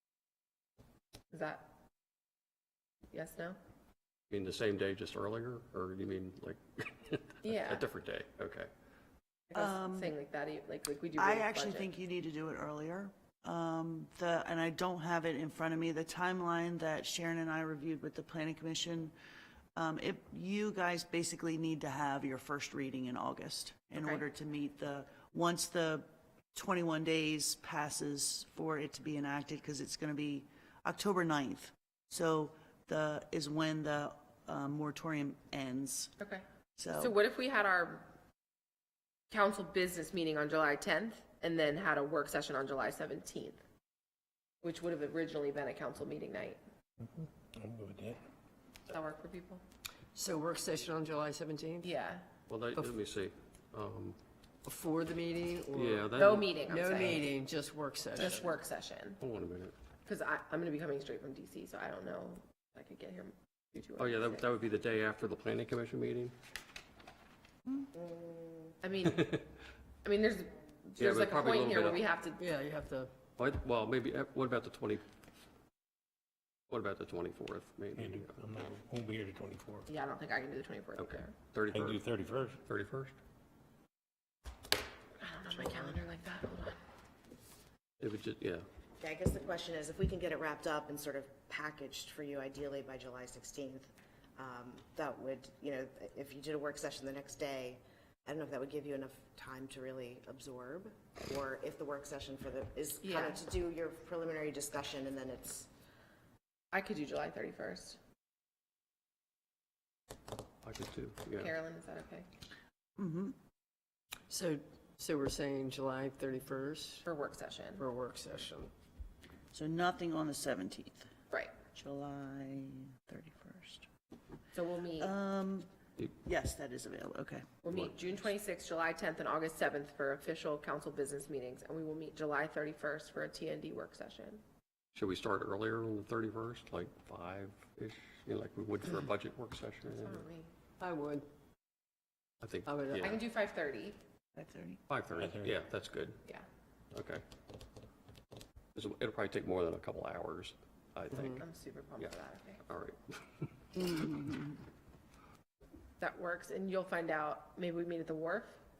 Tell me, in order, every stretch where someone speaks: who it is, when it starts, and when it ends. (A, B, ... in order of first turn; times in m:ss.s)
0:01.3-0:01.7 A
0:03.1-0:03.6 A
0:04.3-0:08.7 B
0:07.4-0:07.9 A
0:09.5-0:11.9 A
0:09.5-0:10.1 C
0:11.2-0:19.1 C
0:19.8-0:36.1 C
0:24.0-0:24.2 A
0:36.2-0:36.4 A
0:36.8-0:37.2 C
0:37.0-0:38.0 A
0:39.3-0:43.6 A
0:44.6-0:46.6 A
0:47.0-0:48.2 D
0:48.9-0:49.6 A
0:50.2-0:51.9 E
0:51.8-0:52.2 A
0:52.5-0:54.2 B
0:54.6-0:58.5 E
0:55.7-0:56.5 B
0:56.1-0:57.3 A
0:58.2-0:59.2 A
0:59.2-0:59.7 B
1:00.1-1:04.5 A
1:04.0-1:06.3 B
1:08.8-1:09.3 A
1:09.1-1:09.4 B
1:10.0-1:12.4 A
1:11.0-1:12.0 B
1:12.4-1:13.1 E
1:13.4-1:15.0 B
1:16.7-1:18.6 B
1:18.0-1:19.8 D
1:19.9-1:21.3 A
1:21.0-1:22.0 B
1:21.7-1:22.6 D
1:22.6-1:23.2 B
1:25.2-1:26.8 A
1:28.0-1:28.6 B
1:29.0-1:45.7 F
1:43.0-1:43.4 A
1:46.7-1:48.0 A
1:50.6-1:51.5 B
1:51.4-1:52.3 A
1:53.0-1:53.4 C
1:54.3-1:57.1 E
1:57.0-1:57.8 A
1:57.8-1:58.7 E
1:59.5-2:01.1 C
2:01.7-2:03.9 C
2:04.5-2:05.1 A
2:05.0-2:05.7 C
2:06.2-2:07.5 C
2:07.6-2:14.4 A
2:07.7-2:07.9 B
2:15.0-2:20.2 B
2:19.9-2:20.5 A
2:20.8-2:21.2 E
2:22.4-2:23.2 B
2:22.7-2:23.1 E
2:23.0-2:24.0 A
2:24.4-2:24.8 C
2:24.9-2:26.2 B
2:25.2-2:25.5 D
2:26.9-2:27.2 B
2:28.8-2:31.4 B
2:31.4-2:32.6 A
2:32.6-2:33.5 B
2:33.8-2:34.6 C
2:36.0-2:38.6 A